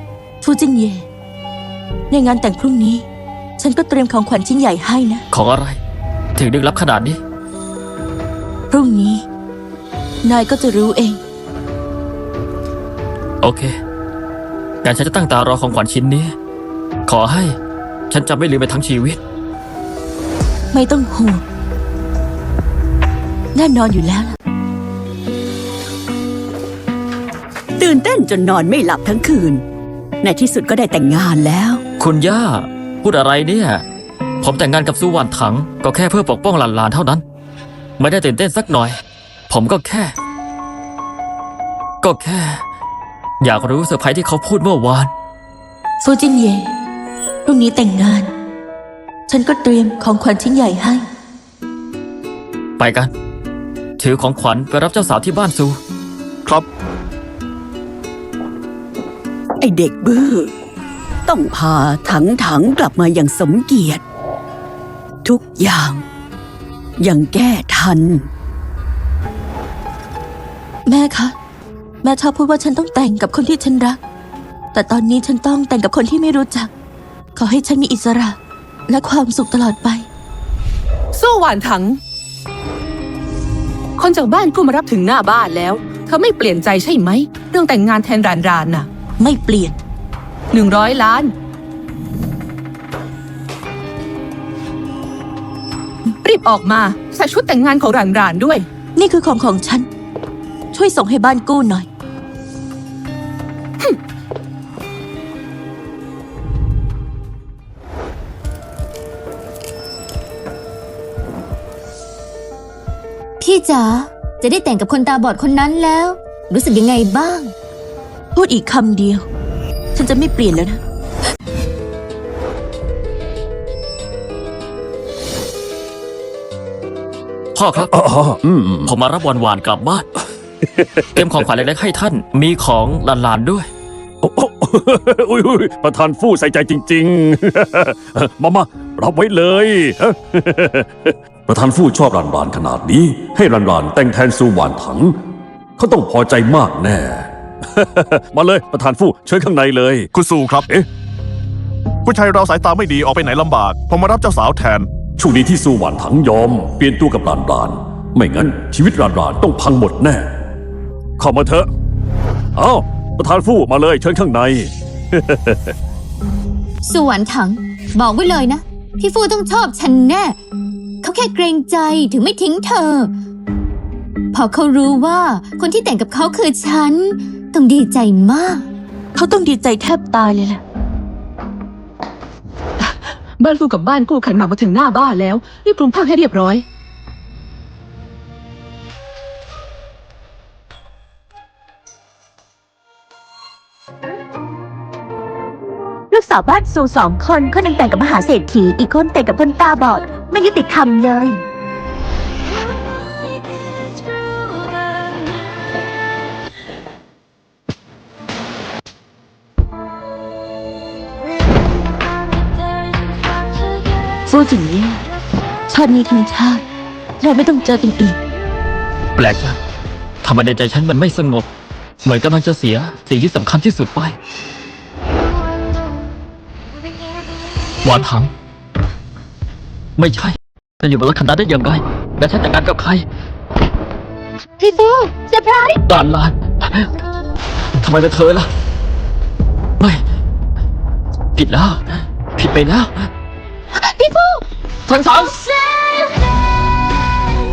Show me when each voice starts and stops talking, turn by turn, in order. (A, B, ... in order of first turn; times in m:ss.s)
0:00.4-0:01.1 A
0:02.1-0:03.1 A
0:03.6-0:05.2 A
0:05.3-0:05.8 B
0:06.4-0:07.2 B
0:08.7-0:09.2 A
0:10.2-0:11.2 A
0:13.4-0:13.7 B
0:14.8-0:16.3 B
0:17.1-0:17.6 B
0:18.1-0:19.2 B
0:20.7-0:21.4 A
0:23.6-0:24.4 A
0:27.8-0:29.6 C
0:30.2-0:31.8 C
0:32.0-0:33.8 B
0:34.4-0:37.2 B
0:38.0-0:39.0 B
0:39.5-0:40.1 B
0:42.0-0:42.6 B
0:43.4-0:45.1 B
0:46.0-0:46.8 A
0:47.4-0:48.3 A
0:49.3-0:51.0 A
0:52.8-0:53.1 B
0:54.0-0:55.8 B
0:59.6-1:00.5 C
1:01.3-1:04.0 C
1:05.2-1:06.0 C
1:07.0-1:08.3 C
1:10.9-1:11.4 A
1:12.0-1:14.0 A
1:14.7-1:16.7 A
1:17.4-1:20.1 A
1:21.1-1:22.0 D
1:24.0-1:28.9 D
1:29.2-1:29.8 A
1:30.5-1:31.3 D
1:36.2-1:38.7 D
1:39.0-1:39.9 A
1:40.7-1:41.9 A
1:53.4-1:57.5 E
1:58.4-1:59.2 A
2:00.0-2:00.8 A
2:07.6-2:07.9 B
2:07.8-2:08.9 F
2:08.9-2:10.1 B
2:11.2-2:13.7 B
2:14.2-2:25.1 F
2:25.8-2:30.1 F
2:30.1-2:30.7 G
2:32.0-2:34.9 G
2:35.2-2:40.3 F
2:41.2-2:41.7 F
2:42.6-2:45.7 F
2:46.8-2:50.4 E
2:51.0-2:53.1 E
2:54.3-2:58.7 E
2:59.2-3:00.6 A
3:02.8-3:06.6 D
3:16.1-3:21.4 H
3:34.3-3:35.0 A
3:35.7-3:36.6 A
3:37.2-3:38.2 A
3:39.2-3:39.6 B
3:40.2-3:41.5 B
3:42.0-3:44.2 B
3:47.8-3:48.3 B
3:50.0-3:53.0 B
3:55.8-3:56.9 B
3:57.8-3:58.5 B
4:01.4-4:03.1 B
4:04.0-4:04.4 E
4:04.9-4:06.0 B